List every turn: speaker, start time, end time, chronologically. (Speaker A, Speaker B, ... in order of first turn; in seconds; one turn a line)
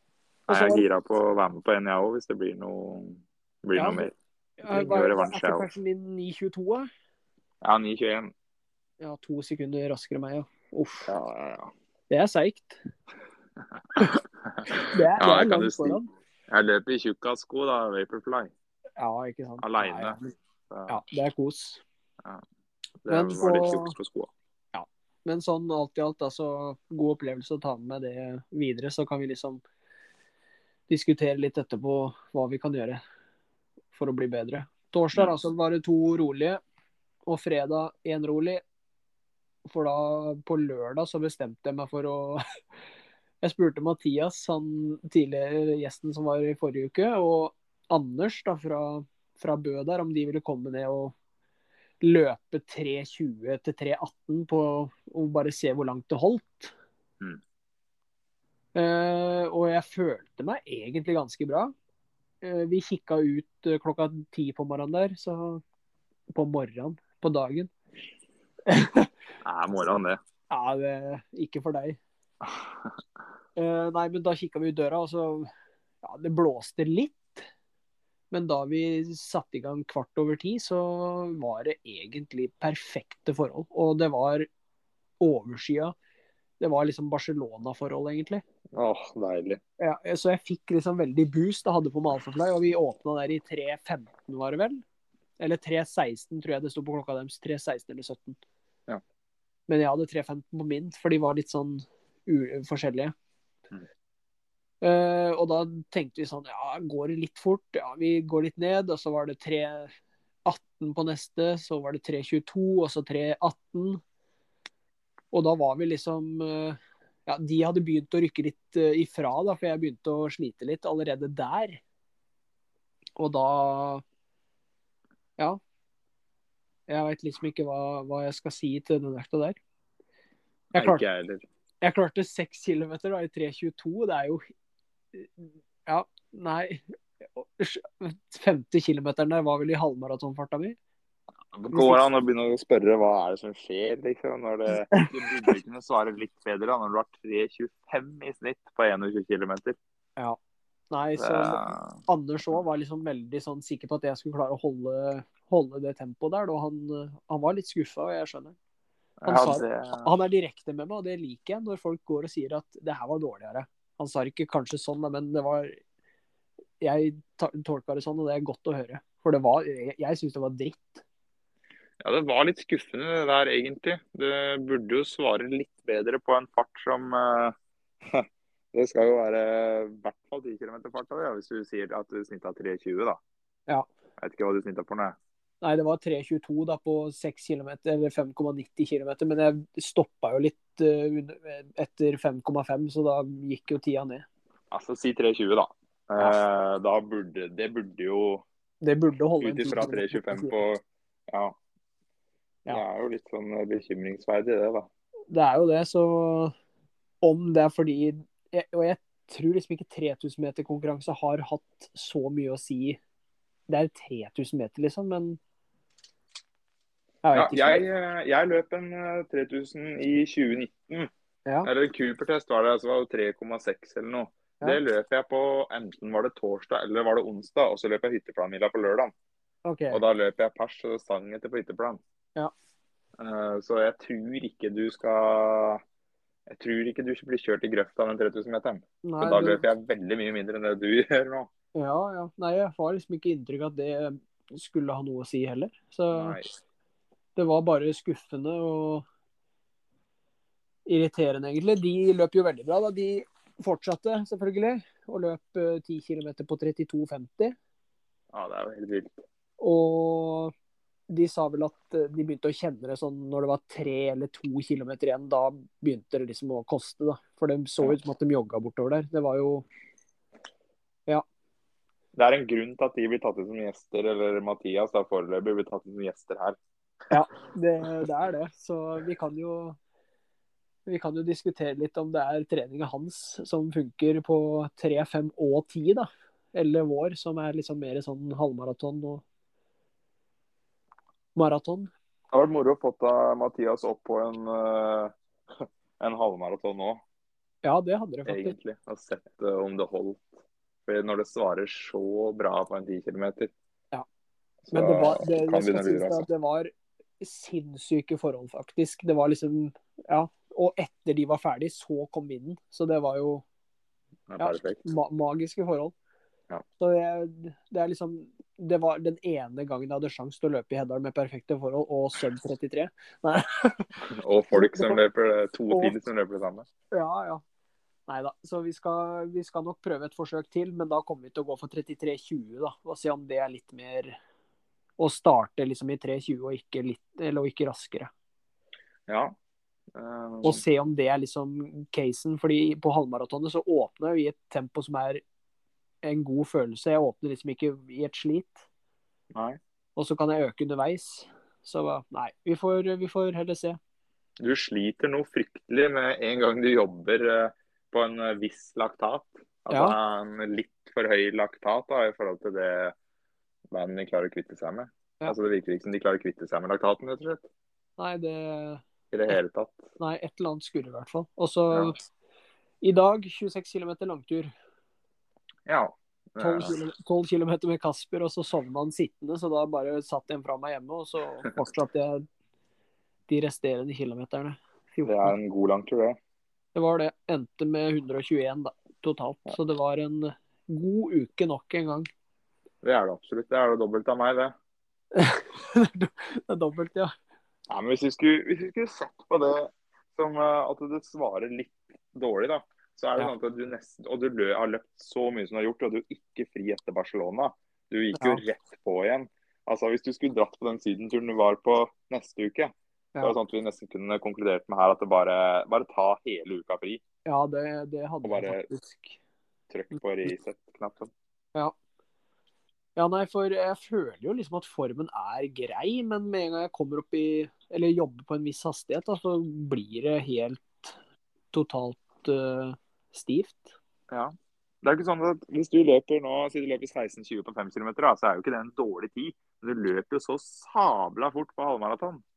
Speaker A: 0.5-0.8
Speaker B: 0.5-4.1
Speaker A: 3.8-6.9
Speaker B: 4.6-5.7
Speaker B: 7.6-8.3
Speaker A: 9.0-11.1
Speaker B: 11.1-11.7
Speaker A: 12.1-12.8
Speaker B: 13.9-18.5
Speaker A: 14.7-16.1
Speaker A: 19.0-20.3
Speaker B: 19.6-20.2
Speaker B: 20.7-20.9
Speaker A: 20.9-21.8
Speaker B: 23.0-24.3
Speaker A: 23.1-23.9
Speaker A: 24.7-29.6
Speaker A: 30.9-33.0
Speaker A: 33.9-36.6
Speaker A: 37.2-38.6
Speaker A: 39.6-42.4
Speaker A: 43.4-51.1
Speaker A: 52.0-56.7
Speaker A: 58.7-61.7
Speaker A: 62.4-65.6
Speaker A: 66.3-67.7
Speaker A: 68.7-69.1
Speaker B: 69.4-70.2
Speaker A: 70.5-72.0
Speaker B: 72.5-72.9
Speaker A: 73.5-75.5
Speaker A: 76.0-77.5
Speaker A: 78.3-84.5
Speaker A: 85.2-85.9
Speaker A: 86.6-88.4
Speaker B: 88.7-89.6
Speaker A: 89.8-94.8
Speaker A: 95.4-98.4
Speaker A: 99.7-103.1
Speaker A: 104.8-109.9
Speaker A: 110.4-114.0
Speaker A: 115.3-121.8
Speaker A: 123.2-124.0
Speaker A: 126.9-129.6
Speaker B: 130.7-131.4
Speaker A: 130.8-131.0
Speaker A: 131.8-134.4
Speaker A: 135.1-136.8
Speaker A: 137.3-140.8
Speaker B: 141.5-149.8
Speaker A: 141.7-142.0
Speaker A: 144.7-145.5
Speaker A: 150.9-158.6
Speaker B: 151.2-152.0
Speaker B: 159.2-160.1
Speaker A: 159.2-165.8
Speaker A: 166.8-171.0
Speaker B: 172.0-183.2
Speaker B: 184.2-185.2
Speaker A: 185.6-194.2
Speaker B: 194.7-198.4
Speaker A: 198.8-200.6
Speaker B: 199.4-201.6
Speaker B: 202.7-204.9
Speaker A: 205.3-206.5
Speaker A: 207.2-213.0
Speaker A: 213.7-215.4
Speaker A: 217.2-217.8
Speaker B: 217.3-221.1
Speaker B: 221.6-229.1
Speaker A: 229.6-230.0
Speaker B: 229.9-232.0
Speaker B: 233.2-235.8
Speaker B: 236.5-241.5
Speaker A: 239.0-239.6
Speaker A: 241.7-246.4
Speaker B: 246.1-246.5
Speaker A: 247.3-249.0
Speaker A: 250.8-257.6
Speaker B: 258.3-259.2
Speaker A: 259.6-260.5
Speaker A: 261.1-269.7
Speaker B: 272.1-276.6
Speaker A: 277.1-279.8
Speaker A: 280.9-289.2
Speaker A: 291.3-291.9
Speaker B: 292.3-297.0
Speaker A: 297.6-298.5
Speaker B: 298.3-300.3
Speaker B: 300.9-303.5
Speaker B: 304.7-306.2
Speaker A: 304.7-313.4
Speaker B: 314.3-314.8
Speaker A: 314.4-315.9
Speaker A: 316.8-323.9
Speaker B: 324.0-326.6
Speaker A: 324.5-325.0
Speaker A: 325.7-326.0
Speaker A: 326.9-327.4
Speaker A: 328.1-334.1
Speaker A: 335.0-338.1
Speaker B: 339.1-339.4
Speaker B: 339.9-340.6
Speaker A: 340.4-345.2
Speaker A: 346.0-348.6
Speaker B: 349.3-349.6
Speaker A: 349.9-353.8
Speaker B: 354.4-362.9
Speaker A: 359.7-360.0
Speaker B: 363.7-367.4
Speaker A: 368.0-368.8
Speaker B: 369.1-369.9
Speaker A: 370.0-372.0
Speaker A: 372.8-374.5
Speaker B: 375.6-376.7
Speaker A: 376.4-382.2
Speaker A: 383.3-385.3
Speaker B: 385.0-386.2
Speaker A: 386.7-392.1
Speaker B: 392.8-394.5
Speaker A: 395.1-397.1
Speaker B: 397.7-417.0
Speaker A: 408.1-408.4
Speaker A: 417.2-419.2
Speaker B: 418.2-418.6
Speaker B: 419.7-421.1
Speaker A: 422.9-431.0
Speaker A: 431.5-433.8
Speaker B: 434.1-442.2